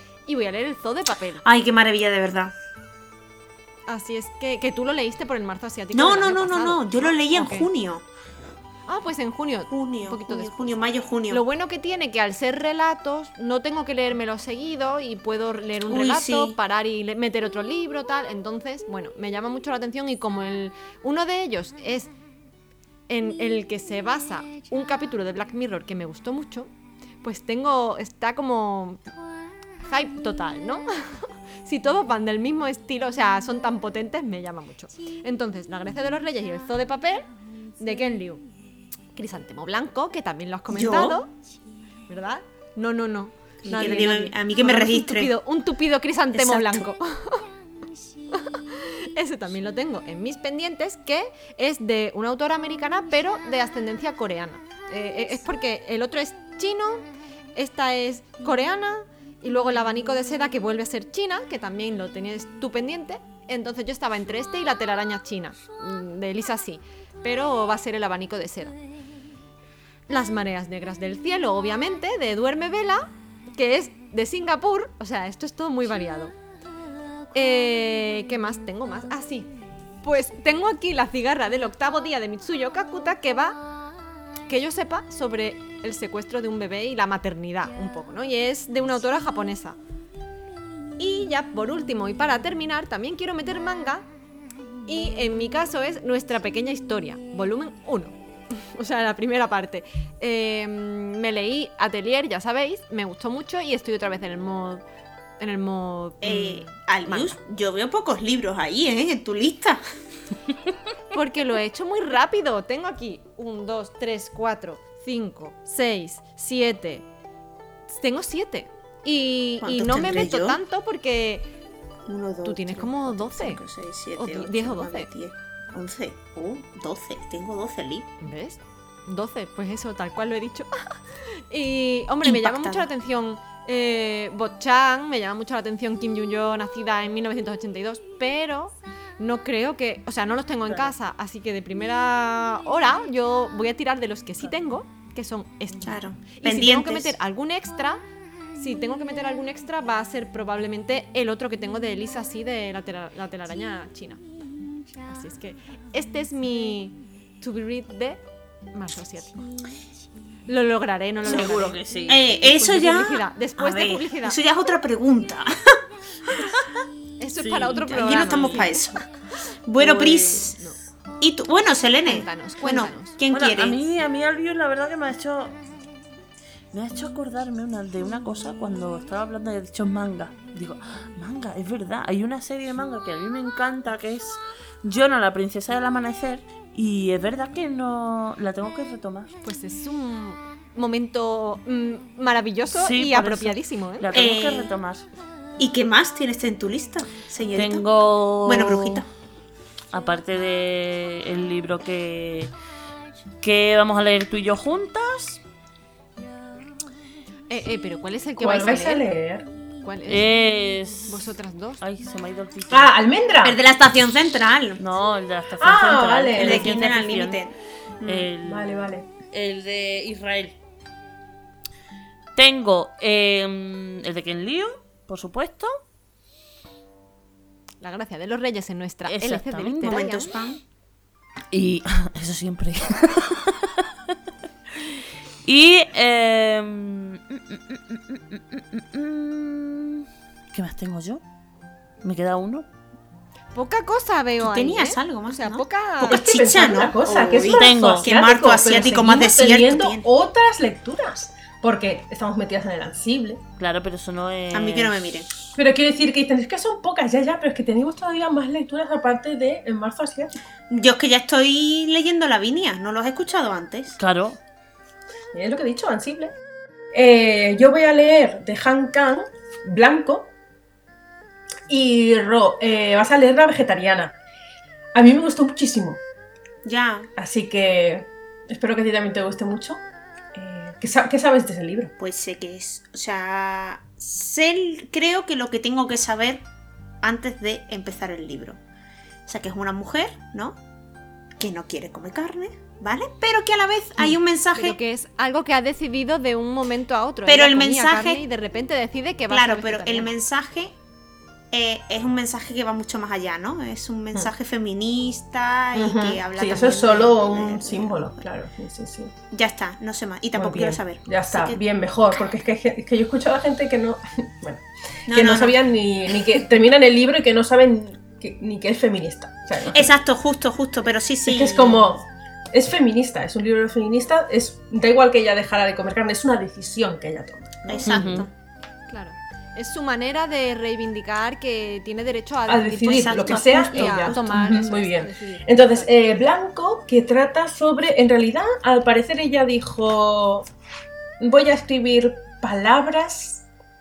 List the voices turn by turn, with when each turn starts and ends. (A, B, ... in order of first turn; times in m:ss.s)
0:00.3-0:01.4 A
0:01.4-0:02.5 B
0:03.9-0:07.7 A
0:05.9-0:08.0 B
0:08.9-0:10.7 A
0:09.7-0:11.4 B
0:11.3-0:22.1 A
0:15.9-0:16.6 B
0:23.1-0:26.7 A
0:27.2-0:29.0 A
0:29.8-0:38.4 A
0:39.1-0:41.3 A
0:40.7-0:41.2 B
0:42.1-0:47.4 A
0:43.6-0:45.3 B
0:46.3-0:46.8 B
0:48.3-1:08.8 A
1:10.1-1:16.3 A
1:17.3-1:19.5 A
1:20.0-1:23.6 A
1:24.5-1:29.8 A
1:31.0-1:34.0 A
1:34.9-1:44.8 A
1:45.4-1:47.3 A
1:46.2-1:49.8 B
1:51.1-1:57.1 A
1:57.9-2:01.5 A
1:59.6-2:00.6 B
2:02.0-2:08.1 B
2:02.4-2:03.6 A
2:04.2-2:05.1 A
2:08.2-2:28.0 A
2:12.2-2:12.9 B
2:25.8-2:27.2 B
2:28.6-2:34.2 A
2:35.0-2:38.2 A
2:38.7-2:39.5 A
2:40.5-2:44.4 A
2:41.2-2:42.2 C
2:42.1-2:45.5 B
2:46.3-2:46.5 B
2:47.2-2:48.7 A
2:47.4-2:48.6 C
2:47.9-2:49.0 B
2:49.7-2:50.6 B
2:49.8-2:50.5 C
2:51.2-2:53.8 B
2:52.0-2:53.2 A
2:53.3-2:55.6 C
2:56.7-3:09.3 C
3:09.4-3:14.1 A
3:12.7-3:15.0 C
3:14.1-3:14.7 B
3:15.6-3:17.8 B
3:17.5-3:19.0 C
3:18.4-3:19.1 B
3:19.9-3:22.5 C
3:23.4-3:25.4 C
3:27.5-3:29.0 A
3:28.4-3:29.5 D
3:29.8-3:30.3 A
3:30.1-3:31.2 C
3:31.1-3:31.8 A
3:31.8-3:32.9 C
3:32.7-3:33.6 D
3:33.4-3:34.8 B
3:34.8-3:37.4 C
3:35.6-3:36.7 D
3:36.3-3:38.3 B
3:38.0-3:40.6 C
3:38.4-3:39.0 D
3:42.4-3:45.7 C
3:47.8-3:50.3 A
3:49.0-3:50.1 C
3:49.8-3:50.6 B
3:51.5-3:54.1 C
3:55.4-4:01.2 C
4:02.0-4:02.6 C
4:03.5-4:06.2 A
4:04.4-4:10.0 B
4:06.0-4:13.4 D
4:07.4-4:08.1 C
4:13.6-4:14.9 C
4:14.5-4:15.3 B
4:15.5-4:20.3 D
4:20.7-4:24.0 B
4:24.0-4:24.4 C
4:25.3-4:26.3 D
4:26.9-4:30.3 D
4:31.7-4:34.2 D
4:34.9-4:36.0 D
4:36.6-4:37.1 B
4:37.2-4:39.8 D
4:40.3-4:41.9 D
4:42.0-4:46.4 B
4:47.0-4:48.6 B
4:49.2-4:50.6 B
4:51.4-4:54.8 B
4:54.5-5:00.1 A
4:57.2-4:58.2 B
4:59.3-5:00.8 B
5:01.5-5:08.3 B
5:05.7-5:09.1 D
5:09.3-5:11.6 B
5:10.3-5:19.8 D
5:15.1-5:15.6 B
5:19.7-5:22.0 B
5:21.2-5:28.2 D
5:27.6-5:28.3 B
5:27.8-5:28.3 C
5:28.9-5:35.9 A
5:32.5-5:40.4 D
5:32.9-5:34.3 B
5:41.2-5:43.4 D